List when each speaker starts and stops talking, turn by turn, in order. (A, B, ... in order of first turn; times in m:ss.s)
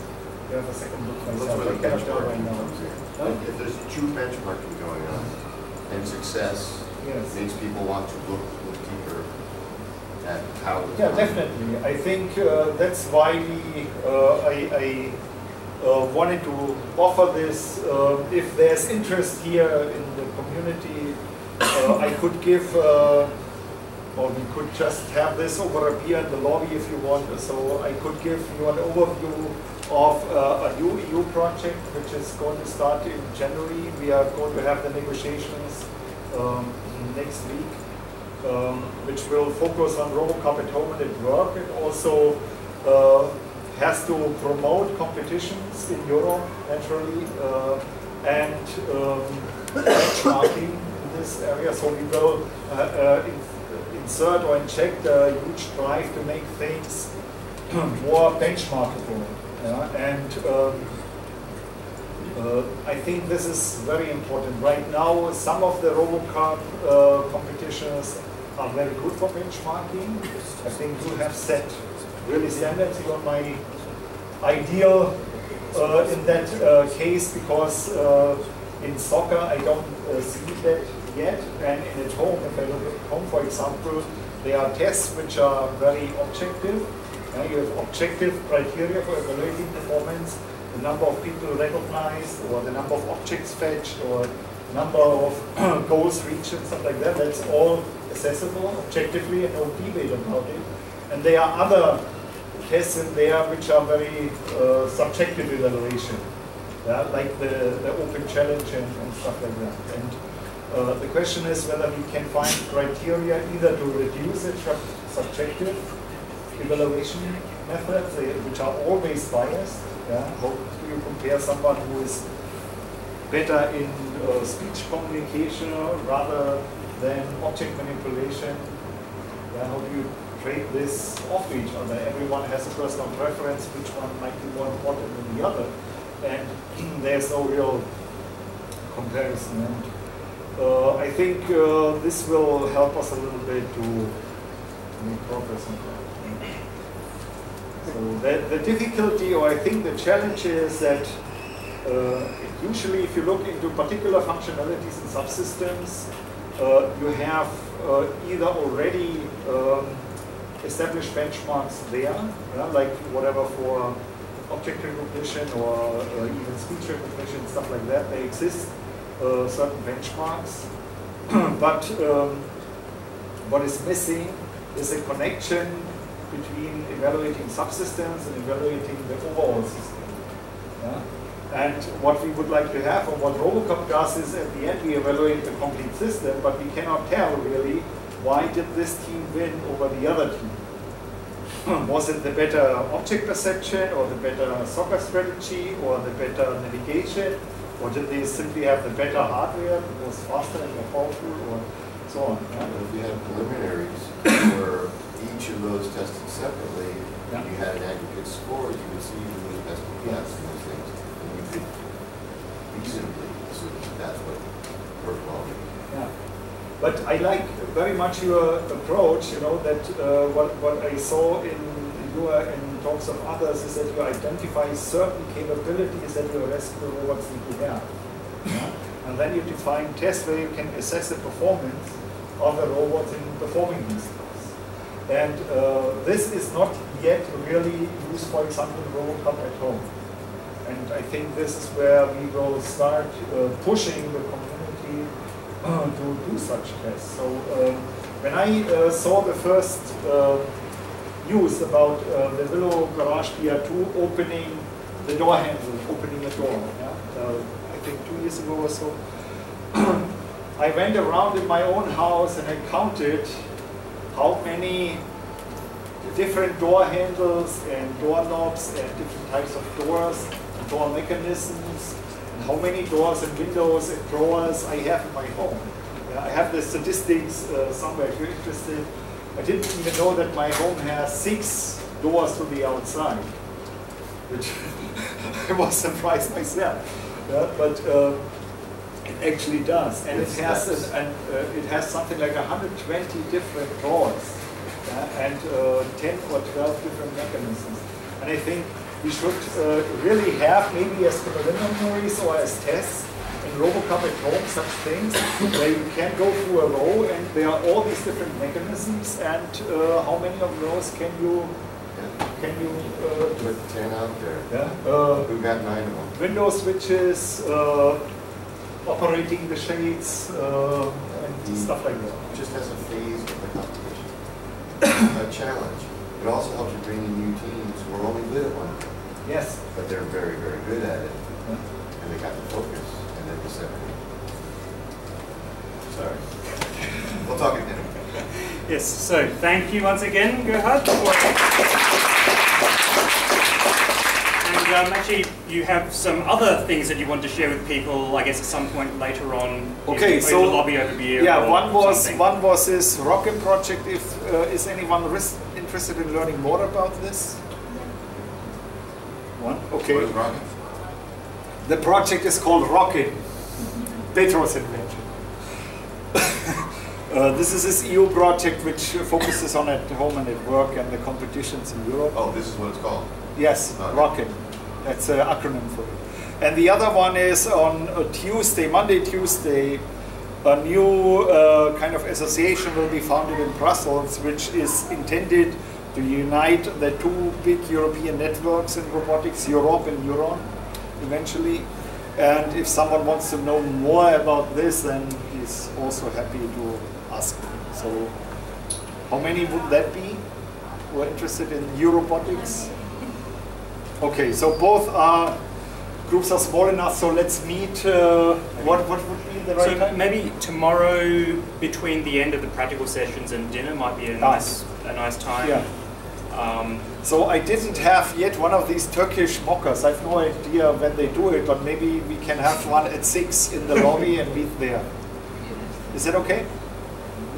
0:00.5-0:03.4 A
0:01.3-0:11.4 B
0:07.0-0:07.3 A
0:11.0-0:15.2 A
0:15.8-0:23.3 A
0:24.2-0:37.8 A
0:38.4-0:57.1 A
0:57.7-1:01.0 A
1:02.3-1:13.6 A
1:14.4-1:42.0 A
1:42.6-1:46.3 A
1:46.8-1:50.2 A
1:50.7-1:55.8 A
1:56.6-2:02.2 A
2:03.3-2:08.8 A
2:09.5-2:17.9 A
2:18.9-2:19.9 A
2:20.6-2:24.2 A
2:25.0-2:26.5 A
2:27.8-2:31.2 A
2:31.8-2:40.0 A
2:40.6-2:44.0 A
2:44.5-2:50.7 A
2:51.3-2:52.5 A
2:53.4-3:00.2 A
3:00.8-3:10.6 A
3:11.6-3:22.7 A
3:22.6-3:35.7 B
3:35.9-3:36.1 A
3:36.8-3:47.9 A
3:48.4-3:54.5 A
3:55.1-3:59.9 A
4:00.6-4:05.1 A
4:05.6-4:10.5 A
4:11.2-4:19.0 A
4:19.7-4:23.4 A
4:24.1-4:25.0 A
4:26.0-4:43.3 A
4:44.3-4:48.3 A
4:49.1-5:11.6 A
4:50.1-4:50.9 B
5:12.3-5:13.5 A
5:13.4-5:14.5 B
5:14.5-5:15.3 A
5:15.2-5:16.1 B
5:16.1-5:18.0 A
5:18.8-5:22.4 A
5:21.4-5:21.7 B
5:22.3-5:24.2 B
5:24.8-5:29.0 B
5:29.2-5:29.6 A
5:29.7-5:34.0 B
5:35.9-5:38.1 B
5:38.7-5:41.5 C
5:44.4-5:52.2 C
5:49.9-5:57.4 A
5:59.4-6:00.1 A
5:59.9-6:00.7 B
6:01.6-6:03.3 A
6:04.1-6:05.1 A
6:06.1-6:12.2 A
6:12.1-6:13.1 B
6:13.4-6:19.8 A
6:13.8-6:14.1 B
6:20.4-6:38.1 A
6:39.1-6:40.2 A
6:40.9-6:42.7 A
6:44.0-6:45.4 A
6:46.0-6:50.0 A
6:49.6-6:57.0 C
6:54.2-6:54.6 A
6:55.4-6:55.7 A
6:57.0-7:04.9 A
7:05.9-7:06.5 A